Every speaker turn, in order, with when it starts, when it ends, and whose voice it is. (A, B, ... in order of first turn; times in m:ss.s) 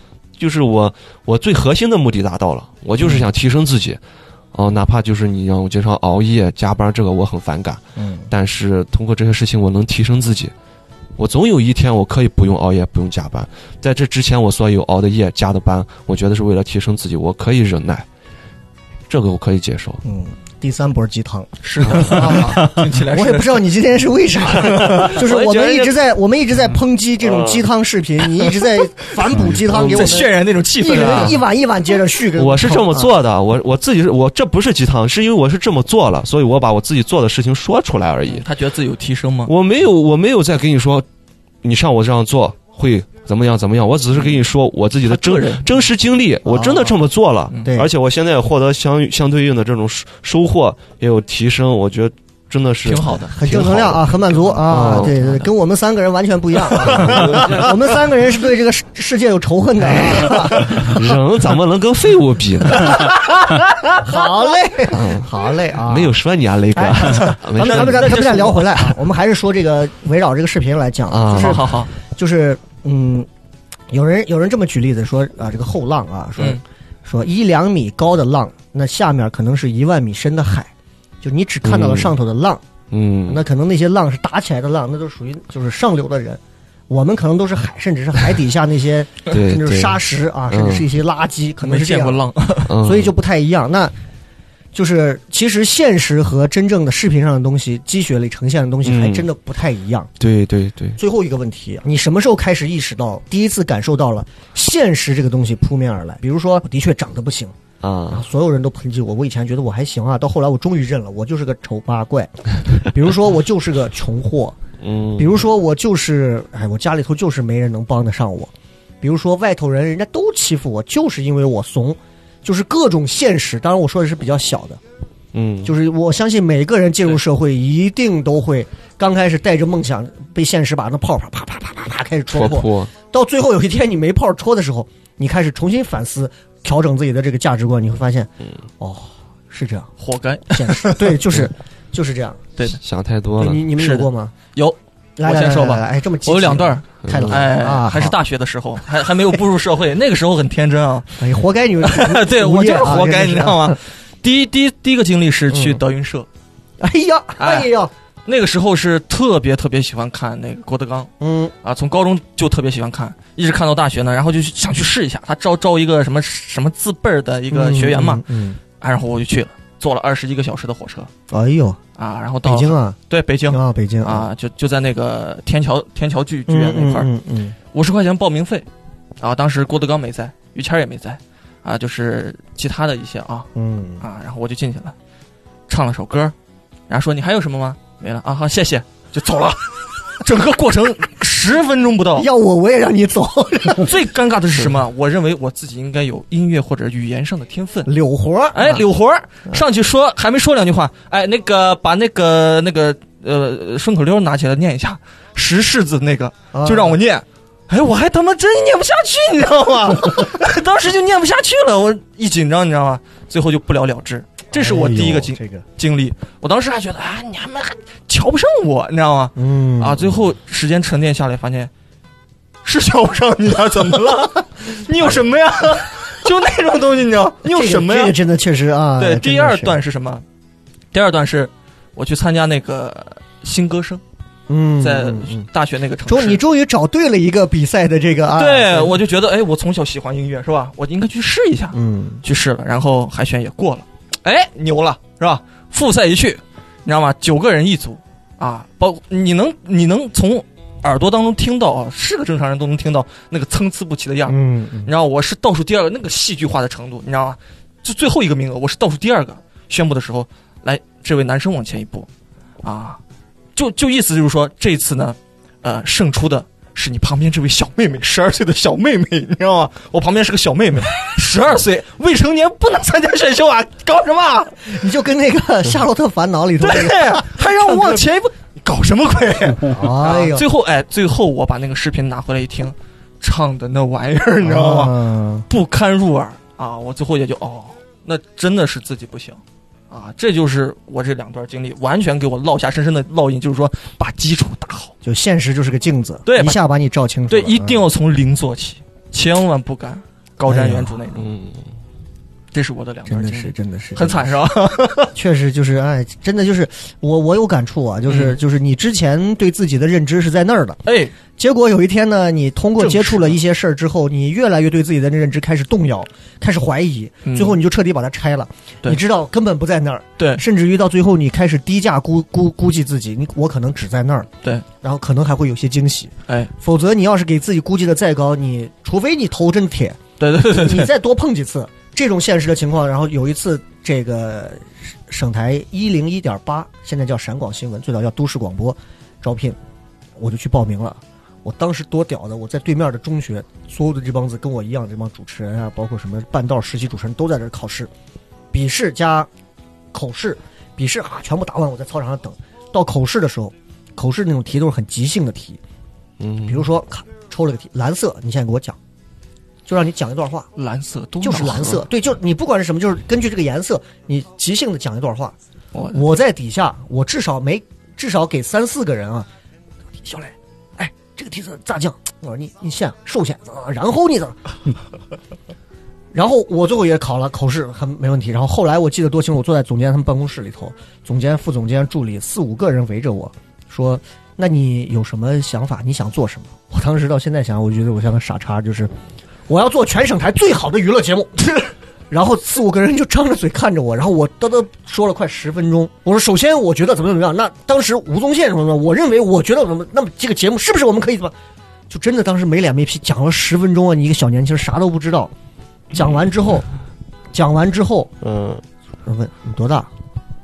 0:00.4-0:04.0 A
0:04.5-0:10.5 A
0:08.0-0:08.3 B
0:11.2-0:18.0 A
0:19.1-0:20.0 A
0:20.0-0:33.1 B
0:21.6-0:23.7 C
0:21.8-0:22.2 A
0:24.6-0:25.9 A
0:24.7-0:25.2 C
0:27.2-0:27.6 A
0:29.5-0:31.4 C
0:32.4-0:38.4 A
0:38.3-0:39.5 C
0:39.4-0:41.0 A
0:41.6-0:55.2 A
0:45.0-0:45.7 C
0:46.4-0:47.0 B
0:52.8-0:53.4 C
0:53.4-1:01.0 B
0:56.8-0:58.0 A
0:59.9-1:03.1 A
1:02.8-1:06.1 B
1:04.9-1:08.5 A
1:06.7-1:13.3 B
1:07.6-1:08.9 C
1:11.1-1:11.6 A
1:11.3-1:11.9 C
1:13.9-1:20.7 B
1:21.2-1:22.6 B
1:21.6-1:22.1 A
1:22.9-1:23.4 A
1:23.3-1:32.3 B
1:29.3-1:30.8 A
1:31.6-1:32.7 C
1:32.7-1:33.1 A
1:32.8-1:33.9 B
1:34.7-1:40.1 B
1:38.8-1:39.3 A
1:40.2-1:41.0 A
1:41.0-1:47.5 B
1:47.8-1:48.2 A
1:48.1-1:54.6 B
1:54.8-1:55.4 A
1:55.2-1:58.5 B
1:59.0-2:04.8 B
2:05.3-2:05.7 A
2:05.6-2:19.9 B
2:12.3-2:12.9 A
2:20.0-2:21.1 C
2:20.5-2:22.4 B
2:22.8-2:23.7 A
2:23.4-2:24.3 B
2:23.8-2:31.2 C
2:25.2-2:28.2 B
2:27.0-2:27.5 A
2:31.2-2:33.8 B
2:31.8-2:36.3 C
2:35.5-2:35.8 B
2:36.8-2:37.9 B
2:37.4-2:37.7 C
2:38.2-2:41.1 C
2:41.2-2:41.5 B
2:41.6-2:51.1 C
2:47.5-2:48.6 B
2:51.3-2:51.8 B
2:52.0-2:57.1 C
2:52.4-2:53.0 B
2:53.5-2:54.3 B
2:56.5-2:57.5 B
2:57.7-2:58.7 C
2:59.2-3:03.5 C
3:03.5-3:04.0 B
3:04.0-3:04.9 C
3:05.7-3:06.3 C
3:06.9-3:12.3 C
3:12.2-3:14.0 B
3:13.8-3:17.9 C
3:17.8-3:18.8 B
3:18.5-3:41.7 C
3:26.5-3:27.0 B
3:34.5-3:35.6 B
3:39.4-3:40.1 B
3:42.6-3:48.2 C
3:47.4-3:49.8 B
3:49.0-3:50.2 C
3:50.9-3:54.0 C
3:54.5-3:55.5 B
3:54.8-3:56.4 C
3:56.0-3:59.0 B
3:58.3-4:22.1 C
4:01.7-4:02.2 B
4:14.3-4:14.9 B
4:22.6-4:23.0 C
4:23.6-4:34.7 C
4:34.6-4:38.0 B
4:36.6-4:54.9 C
4:39.6-4:40.4 B
4:44.4-4:45.4 B
4:55.0-4:57.9 B
4:56.2-4:56.6 C
4:57.3-5:01.3 C
5:00.4-5:01.0 B
5:01.2-5:01.7 A
5:02.5-5:05.1 C
5:03.1-5:04.4 B
5:05.0-5:24.3 B
5:08.1-5:08.4 C
5:10.8-5:11.2 C
5:12.8-5:13.4 C
5:17.2-5:17.6 C
5:20.2-5:20.4 C
5:24.8-5:39.6 B
5:30.2-5:30.9 C
5:40.2-5:47.9 B
5:48.5-5:49.3 B
5:49.9-5:55.6 B
5:56.2-5:56.6 A
5:56.5-5:58.8 B
5:59.6-6:00.5 B
6:00.6-6:01.9 C
6:01.2-6:05.3 B
6:05.7-6:06.0 C
6:05.9-6:09.3 B
6:10.0-6:14.4 B
6:16.1-6:28.9 B
6:29.5-6:41.3 B
6:41.9-6:45.3 B
6:45.9-6:46.7 B
6:47.3-6:48.1 B
6:48.2-6:48.6 A
6:49.0-6:49.9 B